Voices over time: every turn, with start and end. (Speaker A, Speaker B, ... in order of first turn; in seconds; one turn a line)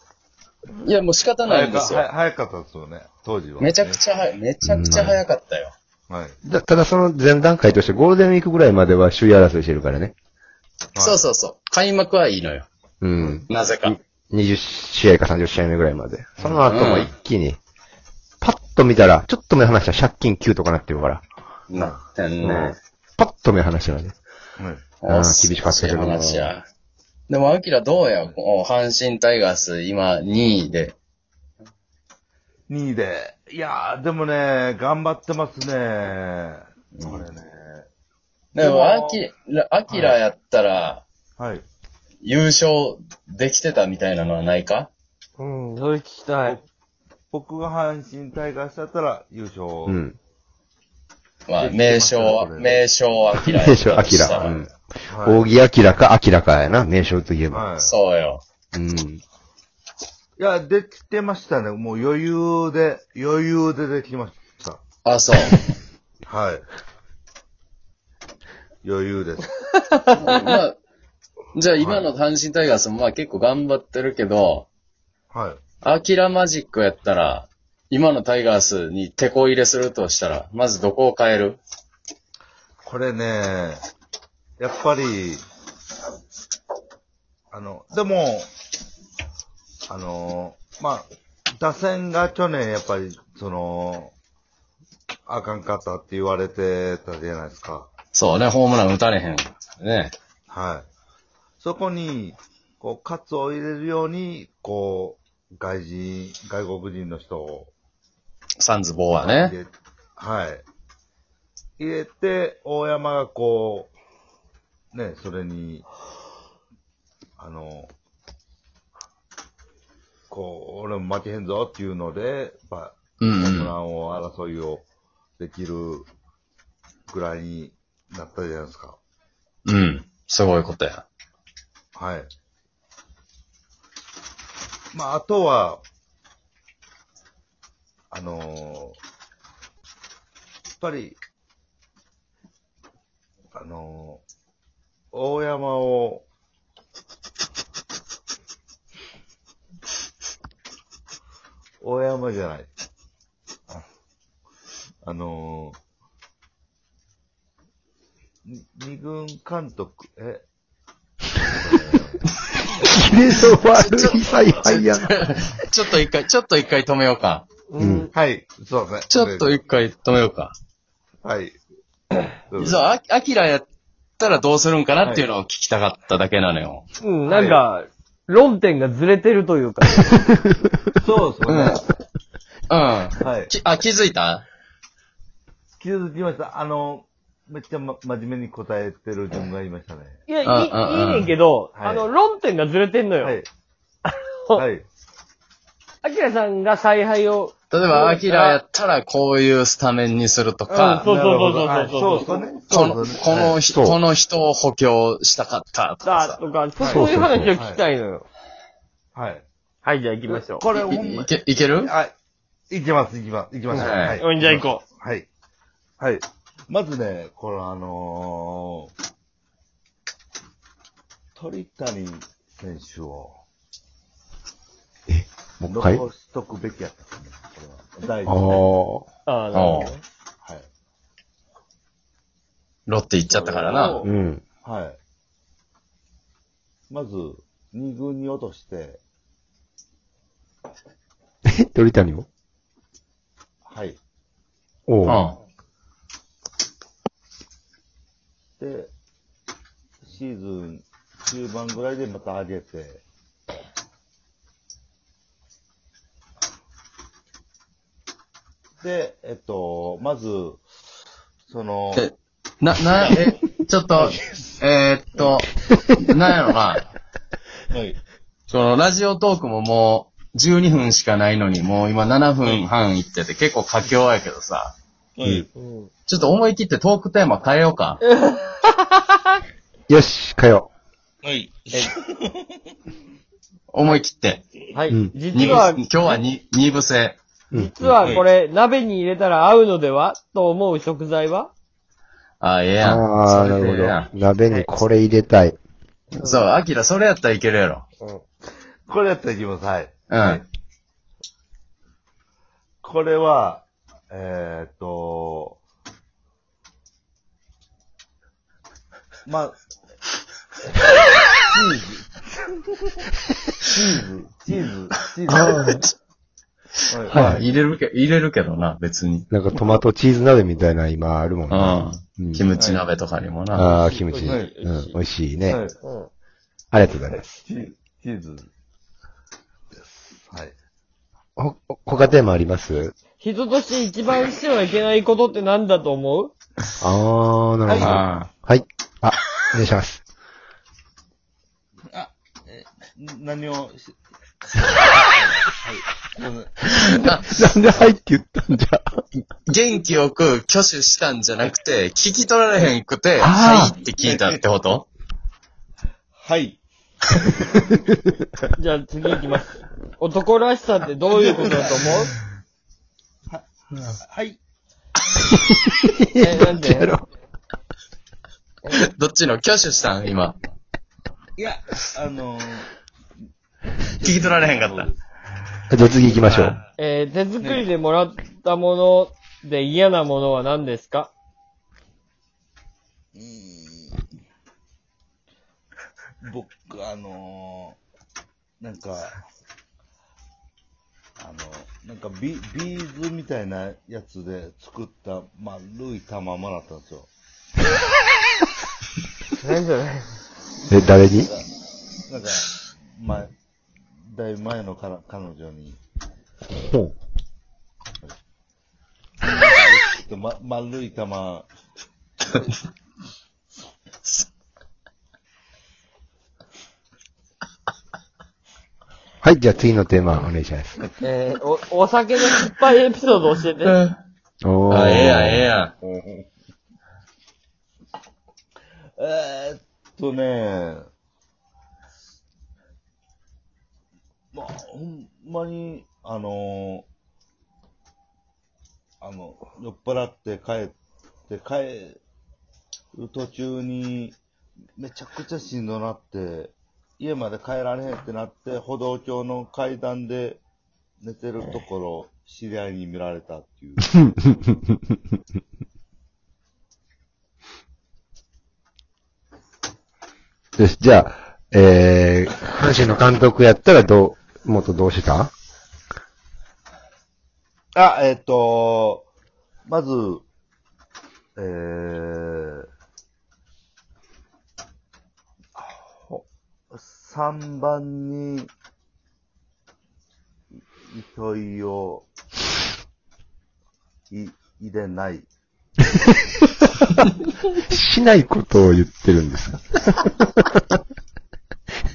Speaker A: 0.8-2.1
Speaker B: 1.4-4.0
Speaker A: 3.6-5.7
Speaker C: 4.6-5.2
Speaker B: 6.1-6.4
Speaker C: 6.4-10.1
Speaker B: 11.0-11.2
Speaker A: 11.0-12.7
Speaker C: 13.0-17.6
Speaker B: 13.2-13.4
Speaker A: 13.5-14.0
Speaker A: 16.6-17.1
Speaker C: 18.4-21.2
Speaker A: 21.7-22.8
Speaker C: 22.4-24.2
Speaker B: 24.6-24.8
Speaker A: 25.0-26.6
Speaker C: 25.1-26.5
Speaker A: 27.3-31.0
Speaker B: 32.7-37.9
Speaker A: 38.5-41.0
Speaker B: 38.6-39.2
Speaker B: 39.9-40.2
Speaker B: 41.4-41.6
Speaker A: 42.2-44.9
Speaker D: 45.4-46.6
Speaker B: 47.3-50.0
Speaker C: 49.9-50.2
Speaker A: 51.5-54.6
Speaker B: 51.6-52.8
Speaker C: 53.4-57.7
Speaker B: 54.3-55.5
Speaker B: 57.5-57.9
Speaker A: 57.8-58.4
Speaker C: 58.7-59.2
Speaker B: 60.4-64.8
Speaker A: 65.0-65.7
Speaker B: 66.2-66.7
Speaker B: 68.8-69.5
Speaker D: 69.7-70.2
Speaker A: 70.1-70.8
Speaker A: 71.5-74.7
Speaker B: 71.8-72.1
Speaker B: 75.3-75.6
Speaker A: 75.8-81.6
Speaker B: 82.8-83.8
Speaker B: 84.6-85.4
Speaker B: 87.5-88.5
Speaker B: 89.9-94.1
Speaker B: 95.3-97.9
Speaker A: 98.1-100.1
Speaker B: 100.5-100.8
Speaker B: 101.6-107.7
Speaker A: 108.6-109.5
Speaker B: 109.2-110.6
Speaker B: 111.8-113.9
Speaker B: 114.9-115.9
Speaker B: 117.4-117.9
Speaker B: 120.3-124.9
Speaker A: 123.2-123.7
Speaker B: 125.4-126.1
Speaker B: 127.1-129.0
Speaker A: 129.7-131.0
Speaker B: 131.9-132.3
Speaker B: 134.9-135.8
Speaker B: 138.1-139.0
Speaker B: 140.8-141.2
Speaker B: 143.6-144.2
Speaker B: 145.1-146.2
Speaker B: 151.8-152.7
Speaker B: 155.0-155.8
Speaker B: 158.4-160.4
Speaker B: 161.4-162.3
Speaker C: 162.7-165.2
Speaker A: 163.7-167.4
Speaker D: 167.7-168.1
Speaker C: 167.8-168.1
Speaker B: 168.1-169.6
Speaker A: 169.1-170.5
Speaker B: 171.2-171.6
Speaker B: 172.5-172.9
Speaker A: 172.6-173.7
Speaker A: 174.2-176.8
Speaker B: 175.0-175.3
Speaker D: 177.0-180.2
Speaker B: 177.2-177.6
Speaker B: 180.9-181.8
Speaker A: 181.4-181.8
Speaker A: 182.7-184.4
Speaker B: 183.2-183.5
Speaker B: 185.8-190.2
Speaker D: 190.3-193.4
Speaker A: 190.4-191.3
Speaker B: 191.8-192.1
Speaker B: 193.2-193.4
Speaker D: 194.1-194.6
Speaker B: 194.5-194.8
Speaker D: 196.0-198.6
Speaker A: 197.7-201.1
Speaker D: 200.7-202.4
Speaker B: 201.0-203.6
Speaker A: 202.7-206.4
Speaker C: 203.7-204.0
Speaker D: 206.0-208.2
Speaker B: 206.8-207.8
Speaker C: 206.8-207.5
Speaker B: 209.1-209.4
Speaker D: 209.8-210.7
Speaker B: 210.3-212.1
Speaker A: 210.7-211.9
Speaker B: 212.7-215.3
Speaker D: 213.7-214.8
Speaker A: 213.7-214.2
Speaker B: 216.0-218.9
Speaker B: 221.3-223.4
Speaker C: 225.1-226.1
Speaker B: 225.7-228.7
Speaker C: 228.2-229.1
Speaker D: 229.3-230.0
Speaker B: 229.5-229.8
Speaker A: 229.5-229.9
Speaker A: 232.9-234.1
Speaker B: 233.2-234.1
Speaker C: 234.0-234.4
Speaker B: 234.6-235.0
Speaker B: 236.9-239.0
Speaker C: 241.5-242.2
Speaker B: 243.6-244.0
Speaker C: 244.9-245.2
Speaker A: 245.1-245.4
Speaker B: 248.6-248.9
Speaker B: 250.0-253.0
Speaker B: 258.8-260.6
Speaker B: 261.5-262.1
Speaker A: 261.9-265.5
Speaker B: 263.0-263.2
Speaker B: 263.9-264.5
Speaker A: 266.1-266.9
Speaker B: 267.7-268.0
Speaker A: 268.5-274.7
Speaker B: 275.2-275.5
Speaker D: 275.6-275.9
Speaker A: 276.1-278.0
Speaker D: 278.0-279.3
Speaker C: 279.9-280.7
Speaker B: 281.2-282.6
Speaker A: 283.7-284.4
Speaker D: 284.7-286.2
Speaker A: 285.3-287.2
Speaker C: 287.5-288.2
Speaker D: 287.5-291.5
Speaker A: 292.4-294.1
Speaker C: 292.8-295.6
Speaker D: 294.5-294.8
Speaker A: 296.1-297.9
Speaker D: 296.2-296.5
Speaker B: 298.9-300.4
Speaker A: 300.1-300.4
Speaker B: 302.8-305.6
Speaker B: 309.2-309.6
Speaker B: 311.3-313.0
Speaker B: 313.6-315.8
Speaker A: 315.3-315.9
Speaker C: 315.3-315.8
Speaker B: 316.9-317.4
Speaker A: 317.0-319.3
Speaker C: 317.1-317.4
Speaker C: 319.3-322.5
Speaker A: 321.5-323.8
Speaker B: 322.6-322.8
Speaker C: 323.5-325.6
Speaker D: 323.7-325.0
Speaker B: 324.2-324.5
Speaker B: 325.5-325.8
Speaker D: 325.8-326.1
Speaker C: 326.7-327.2
Speaker B: 327.1-328.5
Speaker B: 329.8-330.6
Speaker C: 331.4-332.9
Speaker D: 333.2-336.3
Speaker C: 336.8-340.0
Speaker B: 337.7-338.0
Speaker A: 337.8-338.3
Speaker B: 341.9-343.9
Speaker B: 344.6-347.2
Speaker C: 346.7-349.0
Speaker A: 347.0-347.3
Speaker A: 349.4-354.9
Speaker C: 353.2-353.7
Speaker B: 354.0-354.4
Speaker B: 356.2-356.6
Speaker D: 358.6-362.1
Speaker B: 361.1-362.1
Speaker B: 363.3-364.4
Speaker C: 365.3-367.1
Speaker D: 366.2-366.9
Speaker A: 368.7-370.4
Speaker B: 371.4-372.7
Speaker A: 374.0-374.9
Speaker B: 374.0-374.9
Speaker C: 375.7-376.6
Speaker D: 376.8-381.1
Speaker B: 377.4-377.7
Speaker B: 383.1-384.1
Speaker B: 386.2-387.8
Speaker B: 388.6-389.2
Speaker B: 391.2-397.1
Speaker D: 399.3-400.2
Speaker C: 400.7-401.3
Speaker B: 402.1-403.3
Speaker B: 404.1-405.8
Speaker C: 406.5-406.9
Speaker B: 409.2-411.5
Speaker C: 419.2-420.8
Speaker D: 421.0-423.8
Speaker A: 423.6-423.9
Speaker C: 424.4-425.5
Speaker A: 424.7-425.7
Speaker B: 425.8-426.3
Speaker B: 429.0-430.9
Speaker B: 434.3-436.9
Speaker B: 439.0-440.8
Speaker B: 441.3-442.0
Speaker B: 442.9-444.2
Speaker B: 444.8-450.4
Speaker B: 451.0-453.9
Speaker C: 454.0-454.8
Speaker C: 460.6-465.3
Speaker B: 467.7-469.1
Speaker B: 469.7-470.2
Speaker B: 471.4-472.7
Speaker B: 475.6-478.5
Speaker B: 480.9-482.1
Speaker B: 484.1-485.3
Speaker C: 487.7-490.6